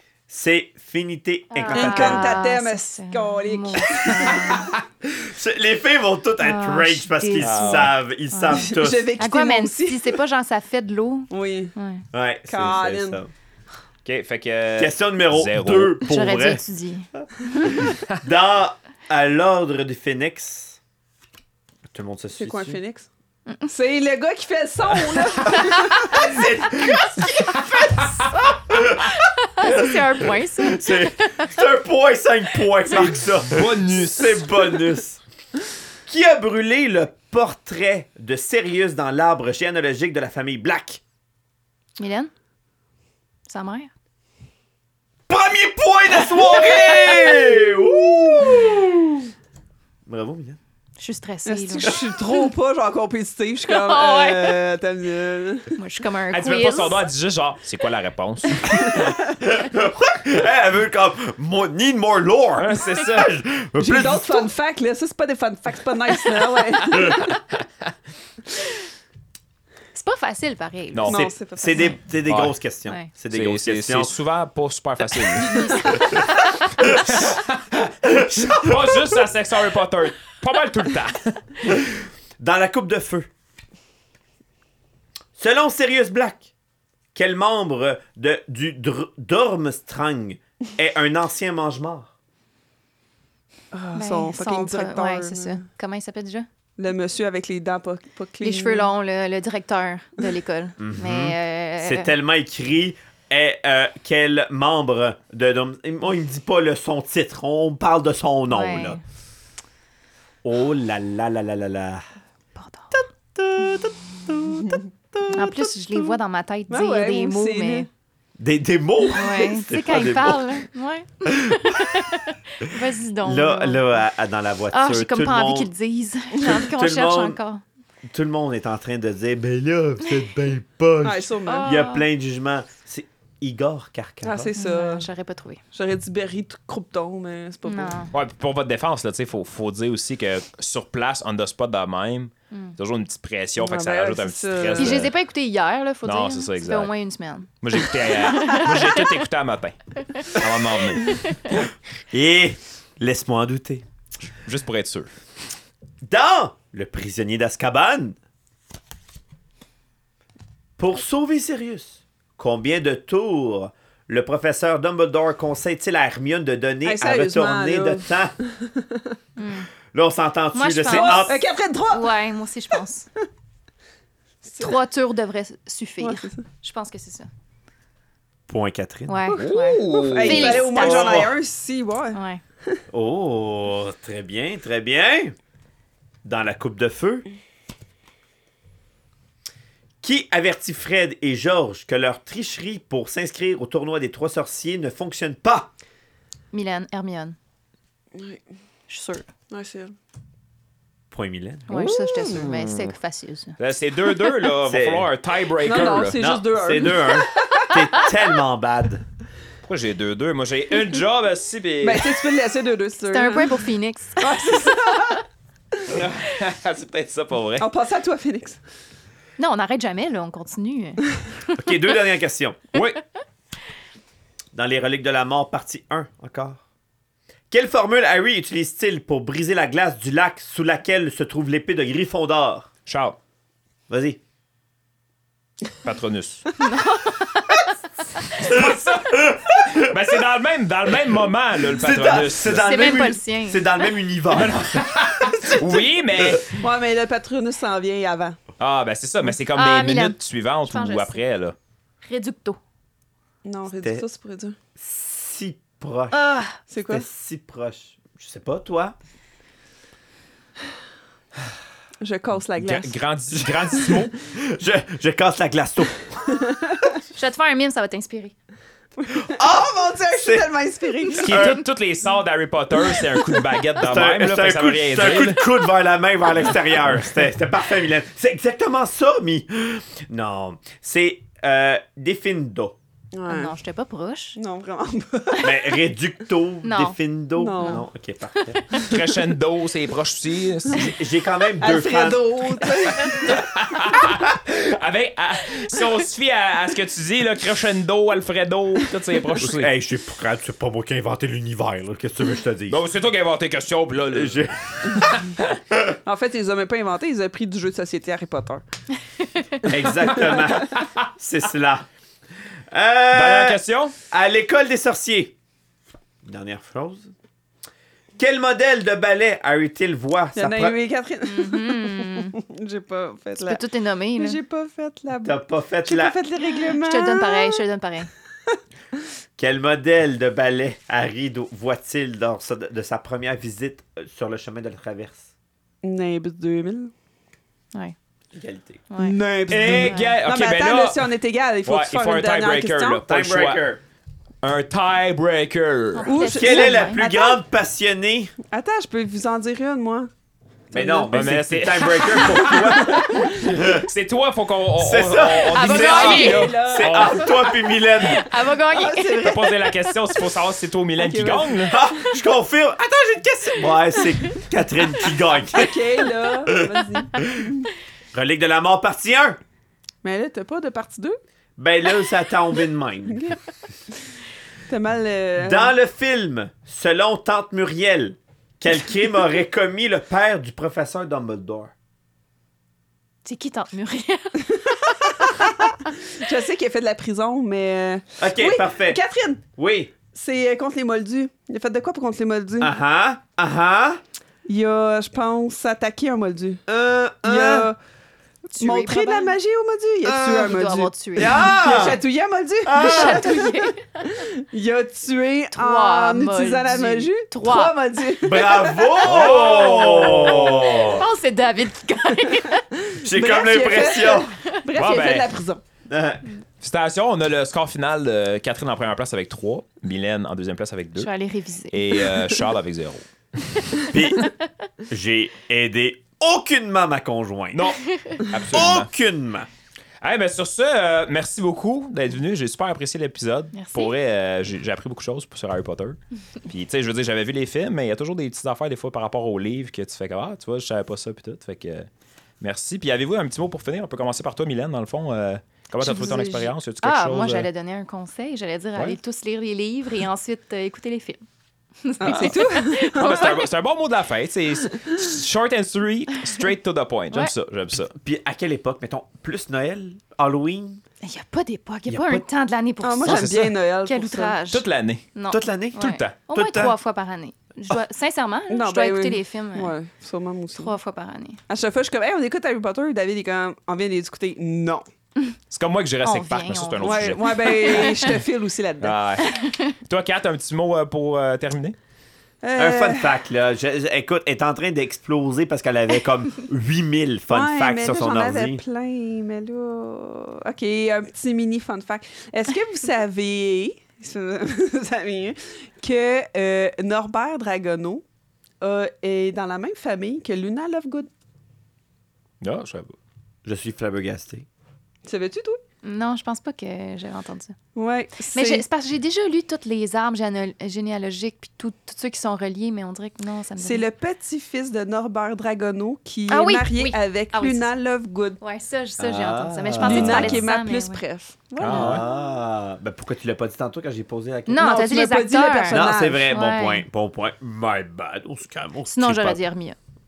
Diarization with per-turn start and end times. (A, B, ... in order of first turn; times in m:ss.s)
0:00.3-0:02.4 A
0:01.5-0:04.7 B
0:01.7-0:04.7 C
0:05.0-0:09.1 A
0:06.4-0:12.0 B
0:07.4-0:07.9 D
0:08.5-0:10.2 C
0:11.3-0:11.7 C
0:12.1-0:13.3 A
0:12.5-0:13.2 C
0:14.0-0:16.0 D
0:14.8-0:16.6 A
0:16.0-0:17.8 B
0:17.7-0:20.8 A
0:21.9-0:22.8 A
0:22.4-0:23.1 C
0:23.7-0:26.4 C
0:26.1-0:27.8 A
0:28.7-0:35.2 A
0:29.0-0:31.6 B
0:32.9-0:34.8 D
0:36.1-0:41.0 A
0:42.0-0:42.3 B
0:43.5-0:43.9 B
0:45.3-0:49.3 A
0:50.0-0:50.6 A
0:51.0-0:52.0 B
0:51.4-0:55.8 C
0:53.7-0:54.6 B
0:55.7-0:57.0 B
0:56.3-0:59.2 D
0:58.9-0:59.2 C
0:59.4-1:04.5 A
1:02.6-1:03.3 D
1:03.8-1:07.3 C
1:09.9-1:11.1 B
1:10.9-1:11.2 D
1:11.0-1:12.0 C
1:11.1-1:14.1 A
1:12.2-1:12.5 D
1:13.3-1:16.2 D
1:15.4-1:16.8 B
1:16.8-1:21.4 D
1:16.8-1:17.3 A
1:18.0-1:19.2 A
1:21.6-1:23.3 A
1:25.4-1:26.5 A
1:27.1-1:32.1 A
1:33.7-1:35.6 C
1:33.9-1:36.5 B
1:36.8-1:38.9 C
1:38.4-1:42.1 B
1:40.8-1:49.0 A
1:48.5-1:49.0 B
1:50.4-1:52.0 A
1:52.6-1:53.0 B
1:52.9-1:55.6 A
1:54.6-1:54.9 C
1:55.3-1:57.9 B
1:56.7-1:57.9 C
1:58.4-2:00.6 A
1:59.1-2:04.0 B
2:01.2-2:02.2 A
2:03.2-2:05.7 A
2:04.7-2:07.6 B
2:06.4-2:07.4 A
2:08.1-2:14.5 A
2:11.0-2:11.8 C
2:11.4-2:12.0 B
2:14.2-2:15.1 C
2:14.6-2:15.6 B
2:15.7-2:18.0 C
2:17.6-2:18.1 B
2:18.1-2:25.1 D
2:23.6-2:25.0 C
2:24.8-2:29.1 B
2:26.0-2:26.9 D
2:27.6-2:31.4 D
2:31.0-2:31.5 B
2:32.1-2:33.8 A
2:34.4-2:35.1 D
2:36.0-2:38.2 A
2:40.8-2:48.3 A
2:46.8-2:49.2 C
2:49.4-2:49.7 B
2:49.9-2:51.4 A
2:50.5-2:53.1 B
2:50.9-2:52.3 C
2:54.4-2:57.3 B
2:56.0-2:56.4 C
2:58.5-2:59.2 A
2:59.1-3:01.2 B
2:59.3-3:02.8 C
2:59.4-3:01.2 D
3:00.6-3:01.3 A
3:02.1-3:02.4 B
3:02.9-3:05.3 A
3:06.2-3:07.2 A
3:10.0-3:15.7 A
3:16.5-3:17.4 B
3:18.1-3:18.4 C
3:18.9-3:19.2 B
3:19.5-3:19.9 C
3:21.1-3:21.8 A
3:21.7-3:23.6 B
3:21.8-3:22.5 C
3:22.4-3:22.8 D
3:23.6-3:26.4 D
3:24.6-3:25.1 A
3:25.6-3:28.0 C
3:26.4-3:29.0 A
3:29.6-3:32.3 D
3:31.8-3:33.6 C
3:33.0-3:34.7 B
3:34.2-3:35.2 C
3:35.9-3:37.6 D
3:37.6-3:38.6 C
3:39.4-3:41.7 B
3:41.6-3:42.6 A
3:42.7-3:43.0 D
3:44.5-3:46.6 A
3:47.5-3:52.7 A
3:52.8-3:53.2 D
3:53.9-3:54.2 A
3:55.8-3:56.6 D
3:56.6-3:57.7 B
3:58.3-4:02.7 D
3:58.4-4:00.0 A
4:01.6-4:06.4 A
4:02.6-4:03.6 B
4:04.3-4:06.6 D
4:06.5-4:08.4 C
4:08.6-4:11.6 D
4:09.5-4:11.2 B
4:12.0-4:12.6 B
4:13.4-4:14.6 C
4:13.7-4:14.0 A
4:14.8-4:16.1 A
4:16.1-4:16.6 B
4:16.7-4:17.0 C
4:16.9-4:18.9 A
4:22.0-4:22.9 C
4:22.6-4:24.2 D
4:23.3-4:26.4 A
4:26.4-4:26.9 C
4:27.1-4:28.3 B
4:29.0-4:31.5 C
4:29.2-4:30.5 A
4:31.1-4:31.6 A
4:31.2-4:35.4 D
4:33.8-4:42.8 A
4:43.1-4:43.6 C
4:43.3-4:44.4 B
4:44.4-4:45.8 C
4:45.4-4:48.6 A
4:46.6-4:47.0 B
4:47.4-4:47.8 C
4:47.5-4:47.8 B
4:48.4-4:48.9 B
4:48.8-4:50.9 D
4:50.7-4:52.2 A
4:51.6-4:53.5 C
4:53.1-4:59.7 D
4:59.4-5:02.8 A
5:02.7-5:05.6 D
5:04.1-5:05.1 A
5:05.7-5:06.0 A
5:06.0-5:08.6 C
5:09.6-5:11.8 A
5:10.6-5:10.9 D
5:12.7-5:15.3 A
5:13.1-5:13.9 D
5:16.2-5:17.1 A
5:18.2-5:20.8 A
5:20.3-5:23.6 C
5:21.2-5:22.3 B
5:23.4-5:24.4 B
5:24.2-5:27.6 C
5:25.2-5:26.2 A
5:26.7-5:28.1 B
5:29.4-5:35.3 A
5:35.8-5:36.9 C
5:38.3-5:38.8 A
5:38.9-5:39.2 B
5:39.0-5:43.0 C
5:39.5-5:41.1 D
5:39.8-5:40.2 B
5:41.6-5:43.6 D
5:43.1-5:43.8 A
5:44.4-5:46.1 D
5:45.9-5:47.4 B
5:46.0-5:47.0 C
5:46.2-5:48.3 A
5:48.5-5:50.1 C
5:50.7-5:51.1 C
5:50.7-5:53.9 A
5:51.1-5:53.0 D
5:52.4-5:53.4 C
5:53.8-5:57.4 D
5:54.8-5:58.2 A
5:55.5-5:56.7 B
5:55.9-5:57.2 C
5:57.9-5:59.2 B
5:58.7-5:59.7 C
5:59.2-6:01.8 D
6:01.0-6:01.8 C
6:01.7-6:05.8 A
6:05.5-6:07.7 C
6:06.7-6:07.2 A
6:08.1-6:09.4 A
6:10.0-6:11.2 C
6:11.6-6:13.3 A
6:14.7-6:15.7 C
6:15.4-6:21.7 A
6:23.2-6:25.9 B
6:25.0-6:29.4 C
6:28.2-6:29.0 A
6:29.6-6:29.9 A
6:30.0-6:32.7 C
6:32.6-6:34.0 A
6:34.4-6:36.6 C
6:36.7-6:37.7 A
6:37.2-6:37.8 C
6:38.5-6:39.4 B
6:38.6-6:50.3 C
6:40.0-6:40.5 A
6:40.3-6:41.5 B
6:41.1-6:42.0 A
6:42.6-6:43.4 A
6:42.8-6:44.0 B
6:45.5-6:47.8 B
6:48.2-6:51.0 A
6:49.0-6:50.8 D
6:50.4-6:52.6 B
6:52.8-6:55.6 C
6:53.0-6:54.3 A
6:54.7-6:55.3 D
6:55.8-6:56.3 A
6:56.6-7:01.1 D
7:01.0-7:02.0 B
7:01.7-7:03.0 D
7:03.9-7:04.3 A
7:04.9-7:07.6 A
7:07.5-7:08.9 D
7:07.9-7:08.2 B
7:08.5-7:09.5 A
7:10.0-7:21.9 D
7:13.5-7:13.9 B
7:22.4-7:27.5 D
7:25.8-7:31.2 B
7:31.8-7:33.4 B
7:32.0-7:33.4 C
7:32.0-7:37.9 D
7:37.9-7:40.8 A
7:41.0-7:49.7 B
7:41.9-7:42.2 A
7:42.8-7:44.4 C
7:43.0-7:43.6 D
7:44.5-7:45.1 D
7:45.3-7:46.7 A
7:45.8-7:46.1 D
7:48.5-7:50.7 C
7:50.5-7:51.4 B
7:51.5-7:54.8 C
7:55.5-7:58.2 D
7:56.0-7:58.2 B
7:56.8-7:59.0 C
7:58.8-8:01.8 D
7:59.2-7:59.7 B
8:02.4-8:03.1 C
8:02.6-8:08.6 A
8:07.3-8:18.0 C
8:18.6-8:21.1 C
8:22.4-8:23.0 D
8:23.4-8:24.4 A
8:25.0-8:25.6 C
8:25.8-8:27.6 B
8:27.7-8:28.6 C
8:28.3-8:33.9 B
8:33.6-8:38.4 C
8:36.3-8:37.7 B
8:38.4-8:41.0 B
8:39.0-8:40.4 A
8:39.8-8:42.0 C
8:41.6-8:42.0 D
8:41.6-8:44.7 A
8:44.5-8:46.8 B
8:44.6-8:46.4 C
8:45.7-8:49.4 A
8:48.9-8:49.8 B